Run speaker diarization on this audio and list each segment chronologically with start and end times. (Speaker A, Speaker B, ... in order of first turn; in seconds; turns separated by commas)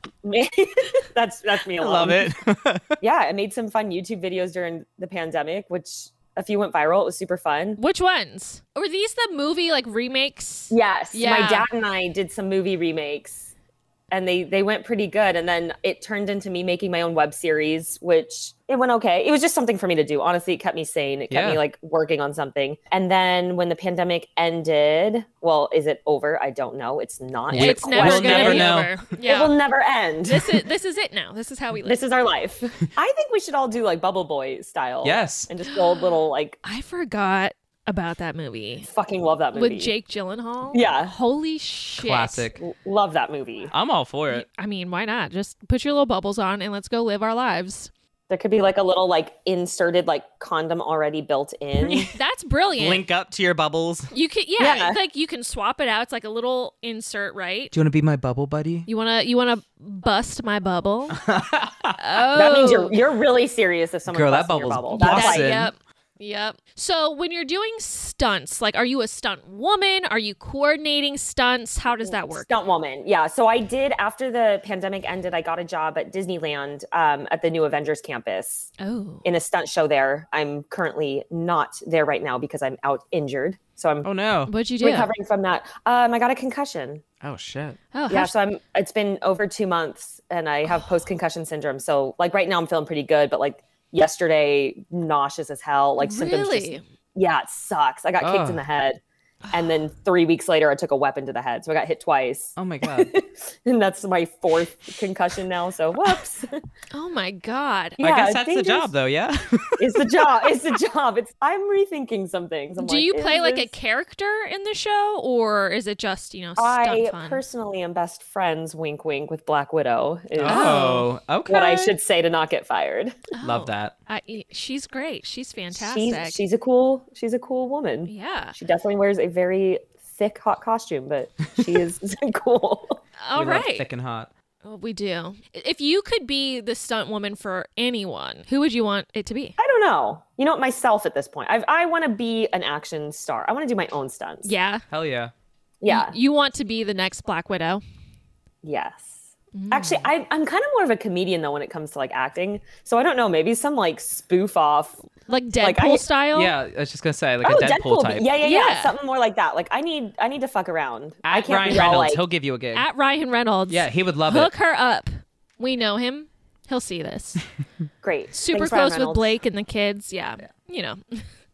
Speaker A: 0.2-2.3, Speaker B: 1.8-2.8, Speaker A: 3.0-7.8, Speaker C: 7.8-11.7, Speaker A: 10.7-13.5, Speaker A: 14.1-30.6, Speaker B: 21.3-21.6, Speaker B: 27.5-29.1, Speaker C: 27.5-29.6, Speaker C: 30.2-32.0, Speaker A: 31.8-36.6, Speaker B: 35.0-35.5, Speaker C: 35.7-36.1, Speaker C: 36.6-38.9, Speaker A: 38.9-39.9, Speaker C: 39.5-42.5, Speaker A: 40.7-41.1, Speaker B: 42.0-42.6, Speaker A: 42.6-43.7, Speaker B: 43.7-44.5, Speaker C: 44.3-47.9, Speaker A: 48.3-52.1, Speaker C: 52.1-53.0, Speaker B: 52.8-54.1, Speaker C: 54.1-57.7, Speaker A: 54.6-55.0, Speaker B: 57.7-58.9, Speaker C: 58.9-61.2, Speaker B: 61.1-62.0, Speaker C: 62.0-63.0, Speaker A: 62.3-65.5, Speaker B: 64.1-65.7, Speaker C: 64.9-72.5, Speaker A: 72.0-78.7, Speaker C: 78.8-79.2, Speaker A: 79.2-84.1, Speaker B: 84.0-84.5, Speaker C: 84.5-85.1, Speaker A: 84.8-87.0, Speaker B: 87.2-87.8, Speaker C: 87.9-88.3, Speaker A: 88.1-99.0, Speaker C: 96.0-96.8, Speaker B: 98.2-98.6, Speaker C: 99.4-99.7, Speaker A: 99.5-106.5, Speaker B: 102.6-103.1, Speaker C: 106.9-108.0, Speaker A: 108.0-108.9, Speaker B: 108.0-110.3, Speaker A: 109.8-113.7, Speaker C: 112.8-117.4, Speaker A: 116.6-120.9, Speaker B: 120.4-121.9, Speaker C: 120.4-121.1, Speaker A: 121.5-123.2, Speaker C: 123.3-126.4, Speaker B: 123.4-123.9, Speaker A: 125.7-133.0, Speaker C: 128.1-128.6, Speaker C: 133.2-133.8, Speaker B: 133.3-134.3, Speaker C: 134.6-139.6, Speaker A: 139.6-144.5, Speaker C: 144.4-144.8, Speaker B: 144.9-145.3, Speaker A: 145.8-146.2, Speaker C: 145.9-147.8, Speaker A: 148.6-149.2, Speaker C: 149.5-150.1, Speaker A: 149.7-155.0, Speaker C: 155.3-156.5, Speaker A: 155.6-156.0, Speaker B: 156.3-158.3, Speaker A: 157.4-162.2, Speaker C: 158.4-158.9, Speaker B: 161.2-162.9, Speaker C: 161.7-161.9, Speaker C: 162.7-167.4, Speaker B: 163.7-164.5, Speaker A: 168.0-169.3, Speaker C: 168.3-171.2